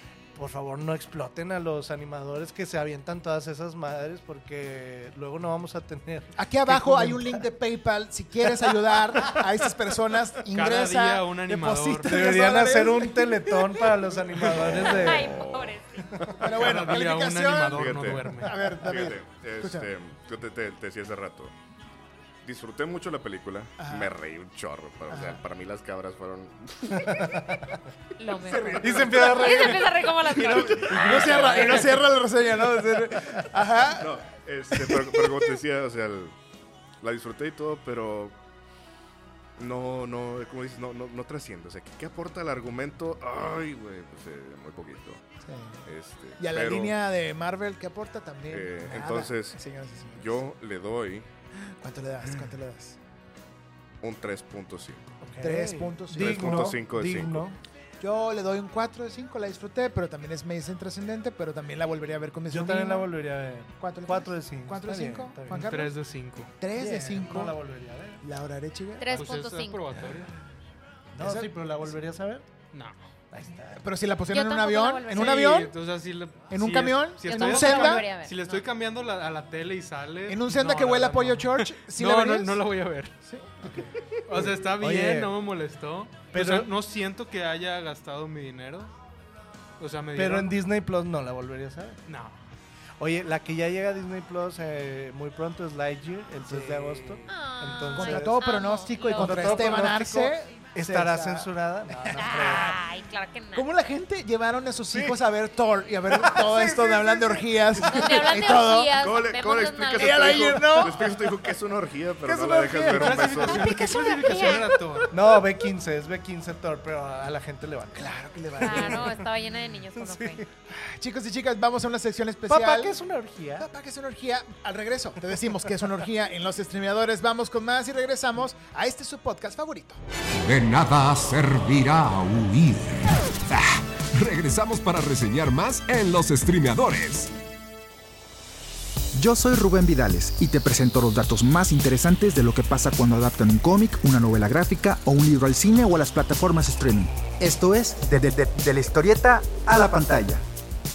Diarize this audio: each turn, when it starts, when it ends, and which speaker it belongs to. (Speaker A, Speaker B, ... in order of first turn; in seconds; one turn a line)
Speaker A: 0.3-7.5
Speaker B: 6.4-14.8
Speaker A: 8.4-9.5
Speaker C: 10.5-12.3
Speaker A: 12.1-15.4
Speaker D: 14.8-16.4
Speaker E: 14.8-16.1
Speaker B: 16.4-19.9
Speaker C: 16.5-18.7
Speaker D: 17.7-21.5
Speaker D: 22.4-27.1
Speaker B: 23.8-24.1
Speaker B: 25.1-25.4
Speaker A: 26.9-27.8
Speaker E: 28.2-30.9
Speaker B: 28.4-34.2
Speaker A: 28.8-31.9
Speaker D: 30.4-31.9
Speaker C: 31.2-31.8
Speaker D: 34.0-36.4
Speaker B: 34.7-35.5
Speaker D: 37.0-38.4
Speaker D: 39.6-45.2
Speaker B: 45.4-45.8
Speaker D: 45.9-47.0
Speaker B: 46.4-50.5
Speaker D: 48.5-49.6
Speaker D: 50.2-51.3
Speaker B: 51.7-53.0
Speaker D: 54.0-55.2
Speaker A: 55.2-57.6
Speaker B: 55.4-56.8
Speaker D: 56.1-57.5
Speaker B: 58.0-63.1
Speaker A: 62.5-65.7
Speaker B: 63.8-65.9
Speaker C: 65.5-66.5
Speaker B: 66.6-67.6
Speaker A: 66.8-68.2
Speaker B: 68.2-69.2
Speaker E: 69.0-69.8
Speaker C: 69.1-70.3
Speaker A: 71.1-72.5
Speaker B: 71.2-71.5
Speaker C: 72.7-73.0
Speaker A: 73.3-73.8
Speaker B: 73.7-75.7
Speaker E: 74.3-75.5
Speaker C: 75.1-83.1
Speaker B: 76.5-78.1
Speaker E: 77.3-78.6
Speaker B: 80.3-82.6
Speaker B: 83.3-83.9
Speaker A: 83.6-85.3
Speaker C: 84.3-88.9
Speaker A: 86.3-86.7
Speaker C: 89.8-90.5
Speaker A: 90.1-92.0
Speaker C: 92.1-92.4
Speaker A: 93.0-98.4
Speaker B: 96.5-97.3
Speaker E: 97.3-99.8
Speaker B: 98.0-102.8
Speaker A: 99.1-102.8
Speaker E: 102.1-103.7
Speaker B: 103.5-109.0
Speaker A: 104.9-105.2
Speaker A: 106.1-108.3
Speaker E: 107.9-110.6
Speaker D: 109.0-113.8
Speaker B: 110.0-111.3
Speaker B: 112.3-115.4
Speaker C: 112.9-115.1
Speaker E: 114.0-114.7
Speaker A: 115.1-119.3
Speaker B: 118.0-119.1
Speaker E: 118.6-120.4
Speaker A: 119.9-120.5
Speaker B: 120.7-123.0
Speaker A: 122.5-123.7
Speaker B: 123.6-130.0
Speaker F: 130.4-137.3
Speaker G: 139.2-150.4